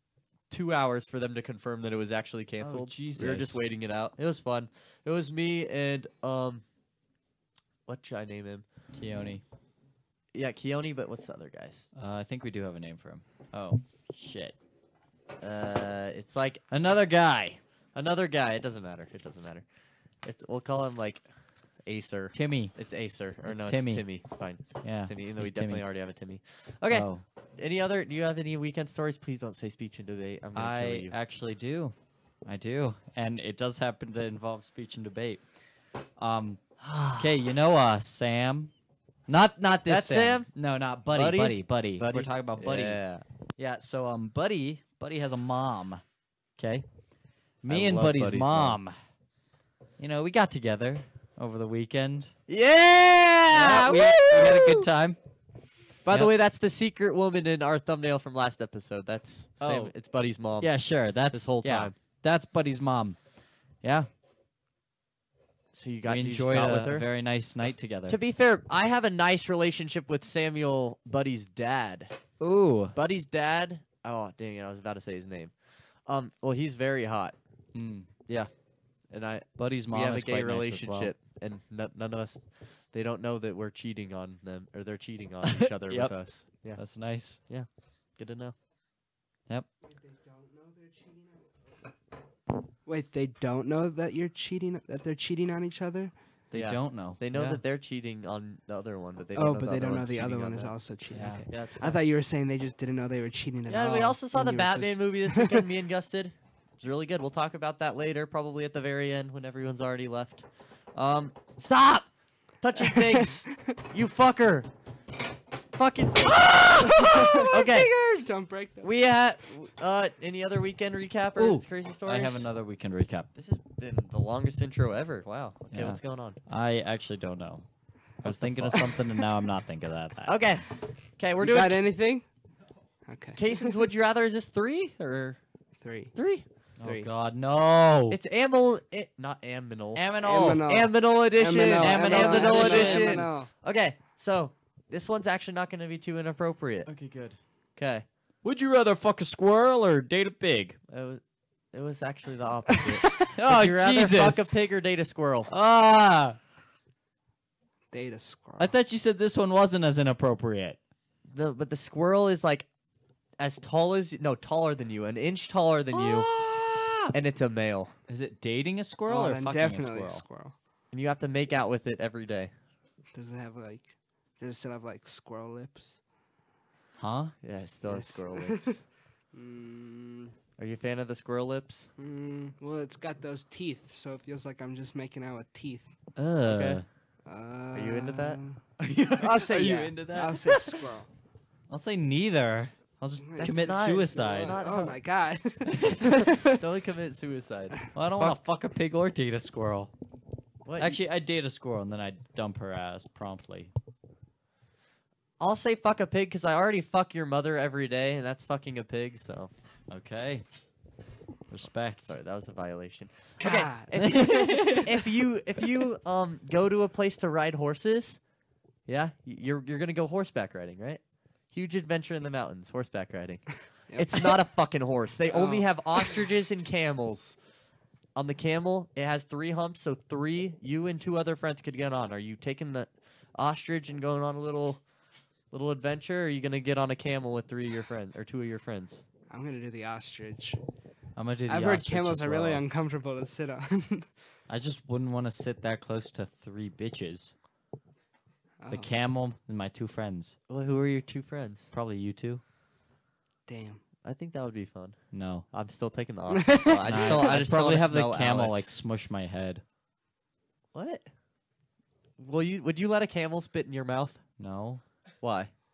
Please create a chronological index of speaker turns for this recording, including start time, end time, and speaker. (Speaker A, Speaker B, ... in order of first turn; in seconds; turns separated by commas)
Speaker A: 0.5-6.6, Speaker B: 2.6-3.6, Speaker A: 7.9-8.7, Speaker B: 8.9-9.4, Speaker A: 10.3-11.9, Speaker B: 11.9-14.6, Speaker A: 15.4-16.6, Speaker B: 16.7-17.6, Speaker A: 17.9-19.6, Speaker A: 20.2-21.2, Speaker A: 21.9-31.1, Speaker B: 22.3-22.8, Speaker B: 23.4-24.0, Speaker B: 24.8-25.8, Speaker B: 26.9-27.2, Speaker B: 30.6-35.4, Speaker B: 36.2-36.6, Speaker A: 36.8-37.3, Speaker B: 37.2-38.7, Speaker B: 39.3-43.0, Speaker A: 39.9-40.5, Speaker A: 41.1-43.2, Speaker B: 43.6-46.0, Speaker B: 46.6-46.9, Speaker B: 47.6-49.0, Speaker A: 47.7-48.8, Speaker B: 50.0-52.3, Speaker A: 52.5-54.9, Speaker B: 53.5-55.2, Speaker A: 56.0-60.7, Speaker B: 59.6-59.9, Speaker B: 60.6-63.2, Speaker A: 61.3-61.9, Speaker B: 63.8-64.1, Speaker A: 65.7-67.1, Speaker B: 66.1-68.2, Speaker A: 68.1-72.1, Speaker B: 72.4-73.0, Speaker A: 73.0-75.5, Speaker A: 76.1-77.4, Speaker B: 77.7-78.1, Speaker A: 79.1-86.8, Speaker B: 79.6-81.1, Speaker B: 85.4-86.1, Speaker B: 86.7-87.4, Speaker A: 87.5-88.5, Speaker C: 89.9-91.5, Speaker C: 92.9-96.1, Speaker A: 96.5-100.7, Speaker B: 96.5-97.6, Speaker C: 99.3-105.7, Speaker B: 101.1-102.1, Speaker A: 103.7-112.1, Speaker A: 112.6-114.7, Speaker C: 112.8-113.3, Speaker A: 115.7-117.9, Speaker B: 116.5-117.3, Speaker C: 116.8-119.0, Speaker A: 118.8-122.5, Speaker B: 121.4-123.3, Speaker A: 123.4-126.4, Speaker B: 125.7-127.7, Speaker B: 128.2-130.4, Speaker A: 128.2-128.9, Speaker A: 130.3-131.8, Speaker C: 131.4-132.2, Speaker C: 133.1-133.8, Speaker A: 133.4-135.4, Speaker C: 135.8-136.1, Speaker A: 136.2-136.4, Speaker B: 136.8-138.2, Speaker A: 138.1-146.9, Speaker B: 139.9-140.7, Speaker C: 140.2-143.5, Speaker B: 141.7-143.3, Speaker B: 146.9-147.4, Speaker A: 147.8-148.1, Speaker B: 148.4-150.8, Speaker A: 150.9-151.2, Speaker A: 151.7-155.5, Speaker C: 152.8-153.1, Speaker B: 153.3-154.5, Speaker B: 155.5-156.4, Speaker C: 157.9-158.7, Speaker B: 158.6-160.8, Speaker A: 161.3-162.7, Speaker A: 163.4-166.3, Speaker B: 165.9-167.1, Speaker A: 167.1-167.9, Speaker B: 168.1-170.2, Speaker C: 169.1-170.6, Speaker A: 170.9-172.5, Speaker C: 173.1-176.0, Speaker B: 177.0-177.3, Speaker A: 177.4-178.8, Speaker C: 177.9-178.8, Speaker C: 179.3-180.3, Speaker A: 180.6-181.9, Speaker C: 182.0-185.9, Speaker B: 186.2-186.9, Speaker A: 186.4-186.8, Speaker C: 187.2-188.6, Speaker A: 187.7-188.4, Speaker B: 188.8-190.8, Speaker C: 189.2-191.1, Speaker B: 191.7-194.6, Speaker C: 193.2-193.6, Speaker A: 193.4-195.0, Speaker C: 194.2-196.6, Speaker B: 195.7-196.1, Speaker A: 196.3-198.4, Speaker B: 197.9-199.9, Speaker A: 200.7-201.0, Speaker B: 200.8-203.7, Speaker A: 205.4-209.5, Speaker B: 209.9-210.4, Speaker B: 211.5-212.1, Speaker A: 212.1-218.2, Speaker C: 213.4-214.4, Speaker B: 213.9-215.1, Speaker A: 218.9-227.4, Speaker C: 223.9-224.3, Speaker C: 225.3-225.7, Speaker A: 228.2-234.8, Speaker A: 235.5-239.0, Speaker C: 239.3-240.6, Speaker B: 241.2-242.6, Speaker C: 241.5-244.1, Speaker B: 244.5-247.3, Speaker C: 248.6-248.9, Speaker B: 248.7-250.4, Speaker A: 250.5-251.7, Speaker B: 251.7-252.4, Speaker C: 253.5-253.8, Speaker A: 254.0-255.0, Speaker B: 255.1-255.5, Speaker A: 255.5-258.7, Speaker C: 256.3-257.4, Speaker B: 256.9-259.6, Speaker A: 260.7-261.1, Speaker A: 262.2-264.2, Speaker B: 264.4-264.8, Speaker A: 265.2-265.5